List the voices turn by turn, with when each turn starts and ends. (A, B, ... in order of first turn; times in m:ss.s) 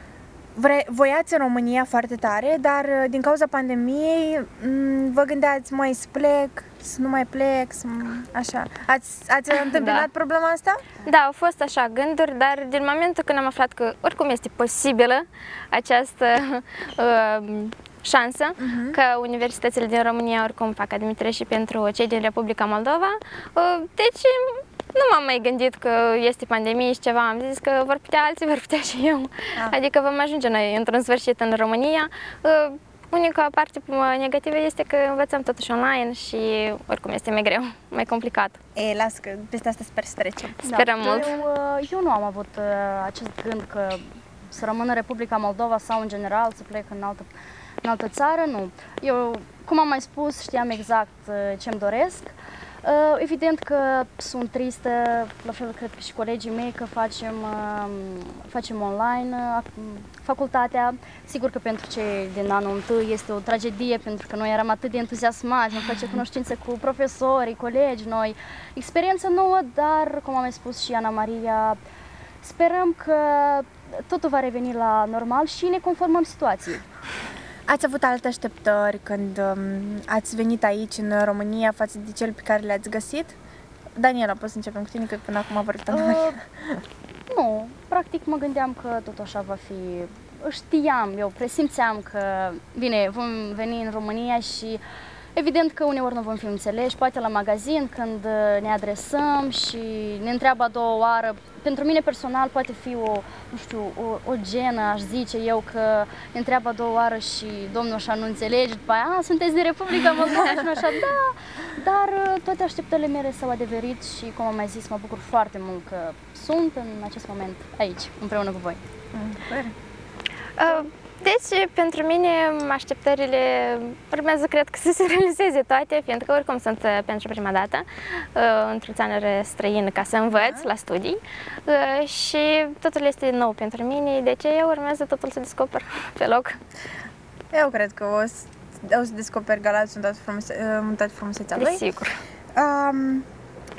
0:00.5-0:10.8 A
0:09.6-0:10.1 B
0:11.0-0:38.6 B
0:18.6-0:19.0 A
0:38.8-0:40.6 A
0:40.6-0:41.4 B
0:40.7-0:47.3 C
0:47.8-1:11.8 C
1:12.4-1:16.8 C
1:17.7-1:23.4 A
1:24.0-1:26.8 A
1:25.9-1:26.4 C
1:27.3-1:34.8 C
1:35.4-1:58.8 C
1:59.1-1:59.7 A
2:00.6-2:16.6 B
2:10.3-2:10.7 A
2:17.5-2:21.8 A
2:21.6-2:22.2 B
2:22.6-2:23.2 A